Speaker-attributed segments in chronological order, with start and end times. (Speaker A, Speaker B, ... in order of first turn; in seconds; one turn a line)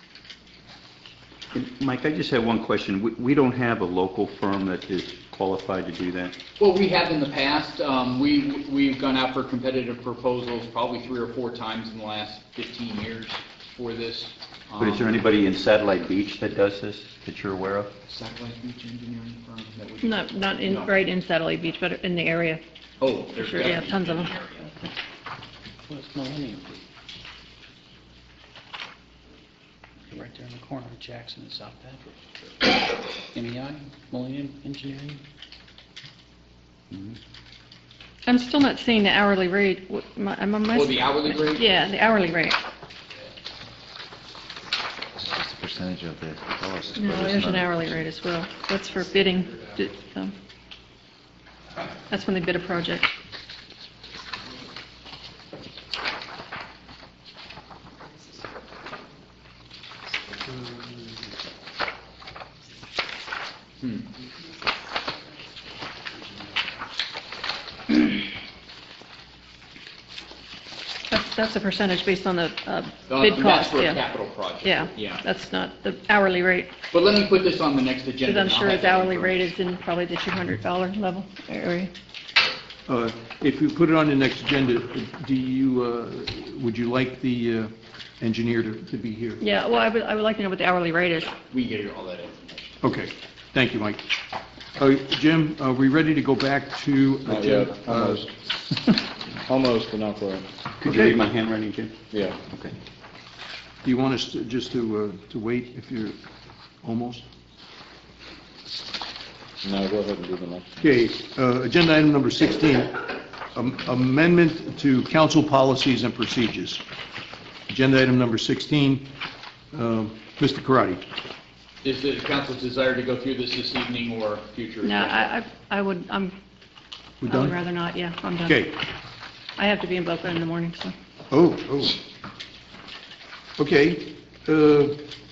Speaker A: 1.5-6.3
Speaker B: 6.6-15.2
Speaker A: 14.8-17.9
Speaker B: 18.1-20.9
Speaker C: 20.0-22.6
Speaker B: 23.0-24.8
Speaker C: 23.4-24.3
Speaker D: 30.1-32.0
Speaker D: 33.5-35.2
Speaker C: 38.2-42.6
Speaker B: 40.7-41.6
Speaker E: 45.2-48.1
Speaker C: 47.0-50.3
Speaker C: 52.1-53.1
Speaker B: 63.8-64.1
Speaker C: 71.1-74.0
Speaker B: 73.1-75.2
Speaker C: 74.6-76.8
Speaker B: 76.9-79.5
Speaker C: 78.2-81.9
Speaker F: 82.9-89.4
Speaker C: 89.4-91.3
Speaker B: 91.5-92.8
Speaker F: 92.8-94.0
Speaker F: 94.8-98.2
Speaker G: 97.2-98.3
Speaker G: 99.4-100.5
Speaker A: 100.8-102.7
Speaker F: 100.8-101.2
Speaker G: 102.1-102.4
Speaker F: 103.8-106.2
Speaker F: 106.8-107.2
Speaker G: 109.6-110.7
Speaker F: 110.8-113.0
Speaker F: 113.5-116.8
Speaker F: 117.7-119.1
Speaker F: 119.7-121.0
Speaker B: 121.8-125.3
Speaker C: 124.8-126.3
Speaker F: 127.2-127.5
Speaker C: 127.2-128.7
Speaker F: 128.4-128.7
Speaker C: 129.6-130.9
Speaker F: 131.3-132.0
Speaker F: 133.6-135.0